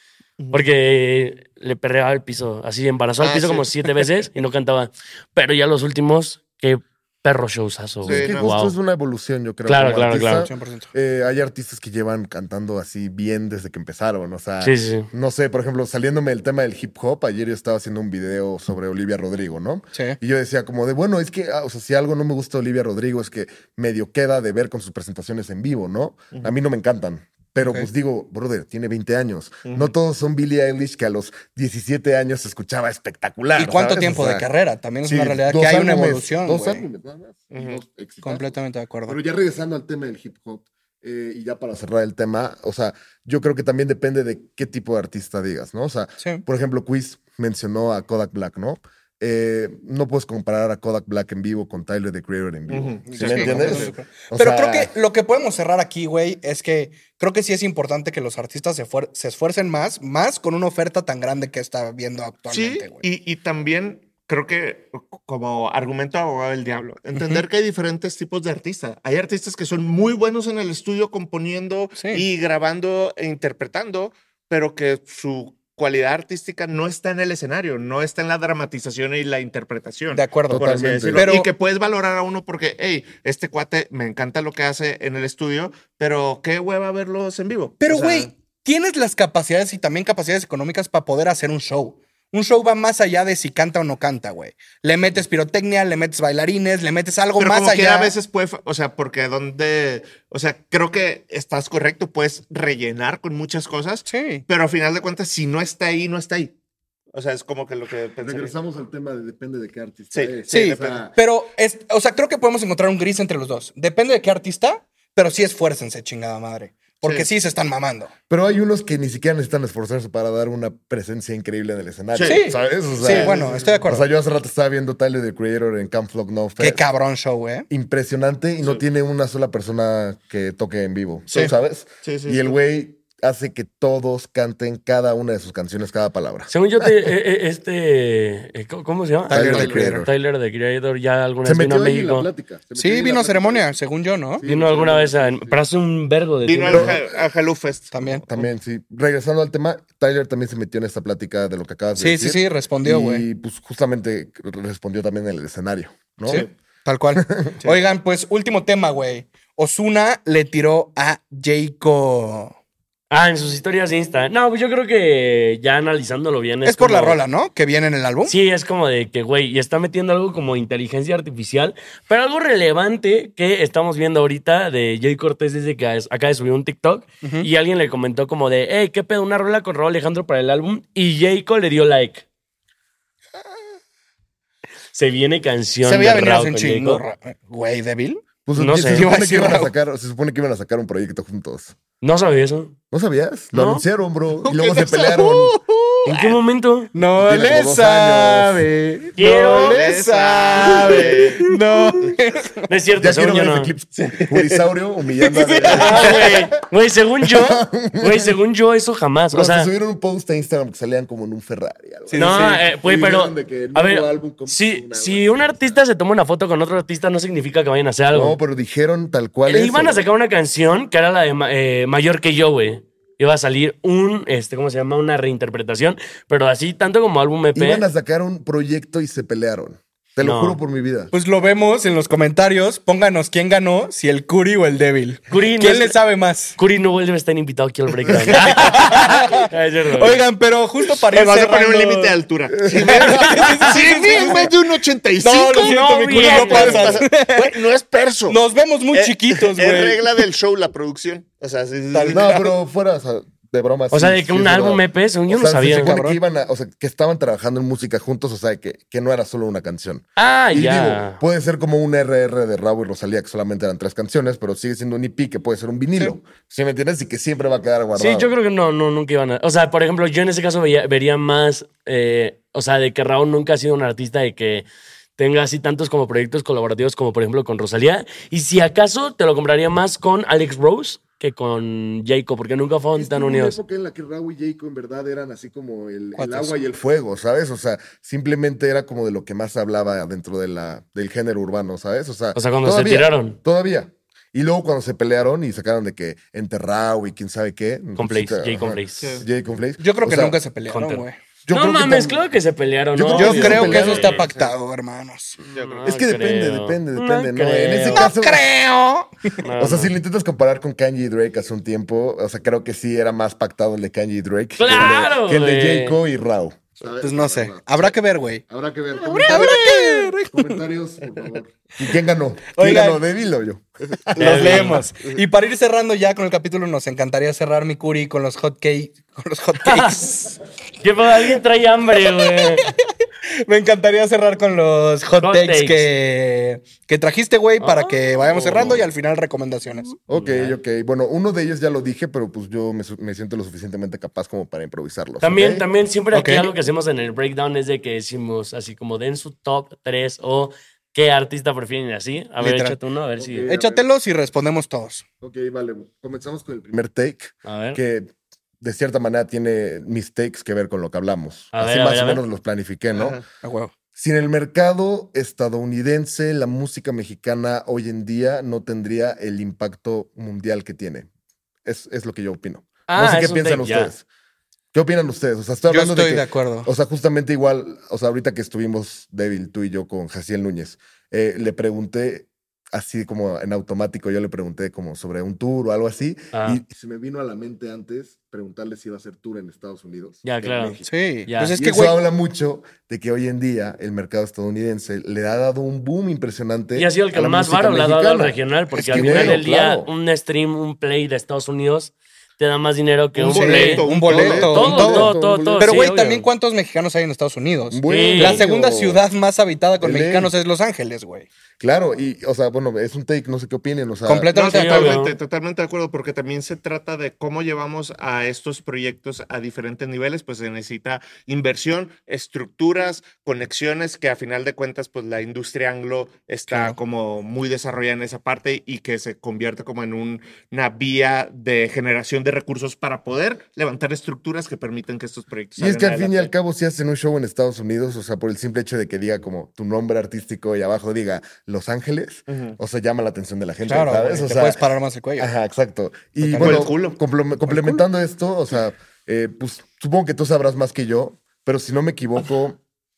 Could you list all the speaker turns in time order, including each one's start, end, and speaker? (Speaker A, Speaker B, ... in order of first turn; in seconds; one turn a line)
Speaker A: 0.4-0.6
Speaker B: 0.5-8.8
Speaker A: 3.2-3.7
Speaker C: 8.0-34.5
Speaker A: 8.0-8.5
Speaker B: 9.7-10.5
Speaker D: 10.4-10.9
Speaker B: 14.6-15.1
Speaker D: 27.6-27.9
Speaker A: 29.6-29.9
Speaker D: 33.6-36.9
Speaker C: 35.1-38.5
Speaker A: 37.5-37.8
Speaker D: 38.2-39.2
Speaker C: 39.1-54.9
Speaker A: 52.7-54.0
Speaker D: 53.1-63.0
Speaker A: 62.5-88.3
Speaker D: 67.2-67.5
Speaker D: 72.0-72.2
Speaker D: 80.1-81.5
Speaker C: 80.5-81.3
Speaker D: 87.8-98.2
Speaker A: 97.4-106.5
Speaker D: 104.1-104.5
Speaker A: 107.1-108.5
Speaker C: 108.2-111.1
Speaker A: 110.1-111.0
Speaker D: 110.5-118.1
Speaker A: 117.0-117.3
Speaker C: 118.3-126.8
Speaker A: 122.1-123.8
Speaker D: 122.2-124.1
Speaker D: 126.6-127.7
Speaker C: 127.7-137.1
Speaker A: 132.0-132.6
Speaker B: 136.5-142.3
Speaker D: 139.3-140.1
Speaker C: 139.3-140.1
Speaker C: 141.4-143.8
Speaker D: 142.8-144.4
Speaker C: 144.3-145.6
Speaker B: 144.4-147.0
Speaker A: 146.4-148.4
Speaker C: 146.7-147.2
Speaker D: 147.9-148.2
Speaker C: 148.3-156.5
Speaker D: 152.0-153.2
Speaker D: 156.3-162.5
Speaker C: 157.2-157.6
Speaker B: 163.1-167.2
Speaker D: 166.7-168.3
Speaker B: 168.3-182.2
Speaker D: 177.2-177.5
Speaker B: 184.9-187.0
Speaker D: 185.8-188.3
Speaker C: 188.5-191.8
Speaker B: 188.6-189.1
Speaker D: 188.8-189.7
Speaker B: 192.0-192.7
Speaker C: 192.9-195.6
Speaker B: 193.5-193.8
Speaker A: 194.4-196.4
Speaker B: 196.1-196.9
Speaker D: 196.9-202.7
Speaker C: 197.2-198.7
Speaker B: 199.2-199.8
Speaker A: 199.5-202.2
Speaker B: 200.8-201.2
Speaker B: 202.7-203.7
Speaker C: 203.0-206.5
Speaker A: 204.0-204.6
Speaker D: 205.2-206.3
Speaker A: 205.6-206.2
Speaker B: 205.7-209.7
Speaker C: 207.2-208.4
Speaker C: 209.3-215.8
Speaker D: 212.1-212.6
Speaker B: 212.2-218.4
Speaker C: 218.1-220.0
Speaker B: 219.5-227.9
Speaker C: 227.5-231.1
Speaker B: 230.2-230.6
Speaker D: 231.1-236.6
Speaker B: 235.3-236.0
Speaker B: 236.6-240.2
Speaker D: 238.1-242.2
Speaker C: 238.1-238.6
Speaker A: 240.9-248.4
Speaker C: 242.6-243.7
Speaker D: 242.8-244.5
Speaker D: 245.2-247.6
Speaker B: 245.5-247.0
Speaker D: 248.3-250.1
Speaker A: 248.9-252.5
Speaker D: 251.9-252.4
Speaker C: 252.1-268.3
Speaker B: 253.9-256.0
Speaker D: 255.7-256.2
Speaker B: 260.2-261.2
Speaker B: 267.9-274.7
Speaker B: 275.2-283.6
Speaker C: 282.9-300.4
Speaker D: 286.2-286.6
Speaker B: 292.4-293.4
Speaker B: 298.0-299.1
Speaker A: 299.0-299.3
Speaker D: 299.8-301.2
Speaker B: 300.7-304.2
Speaker C: 301.5-302.2
Speaker C: 302.9-304.3
Speaker D: 303.1-305.4
Speaker A: 303.7-304.5
Speaker B: 305.4-308.1
Speaker A: 305.5-305.9
Speaker C: 305.8-308.4
Speaker D: 307.9-309.4
Speaker B: 309.4-309.9
Speaker C: 309.6-324.9
Speaker B: 314.6-316.0
Speaker D: 317.0-318.4
Speaker D: 319.0-320.6
Speaker D: 322.6-323.0
Speaker B: 324.2-324.9
Speaker D: 324.2-330.4
Speaker B: 329.6-330.0
Speaker B: 330.8-332.7
Speaker D: 332.0-339.9
Speaker B: 335.2-335.9
Speaker B: 337.6-338.9
Speaker C: 340.1-345.7
Speaker B: 340.1-340.6
Speaker B: 345.2-353.5
Speaker D: 346.1-346.5
Speaker D: 352.4-352.8
Speaker C: 353.2-353.9
Speaker D: 353.5-355.1
Speaker C: 355.2-363.2
Speaker B: 357.4-357.8
Speaker B: 361.5-362.2
Speaker A: 362.9-363.2
Speaker D: 363.4-363.7
Speaker C: 364.0-371.1
Speaker C: 371.6-374.1
Speaker B: 372.9-373.9
Speaker C: 374.7-390.9
Speaker D: 375.7-376.7
Speaker B: 386.3-386.6
Speaker B: 390.2-391.6
Speaker D: 390.9-392.0
Speaker C: 391.5-399.9
Speaker B: 396.8-406.3
Speaker D: 398.9-399.4
Speaker A: 403.2-404.7
Speaker D: 403.3-411.3
Speaker C: 404.1-405.9
Speaker C: 407.7-409.0
Speaker B: 407.9-408.4
Speaker C: 409.8-410.3
Speaker C: 411.6-414.3
Speaker D: 414.1-415.0
Speaker A: 414.3-436.3
Speaker B: 414.4-415.1
Speaker D: 426.5-426.8
Speaker C: 435.6-444.6
Speaker A: 442.3-442.6
Speaker D: 443.7-445.3
Speaker C: 445.2-452.6
Speaker D: 446.2-446.7
Speaker A: 446.4-447.0
Speaker D: 447.5-447.8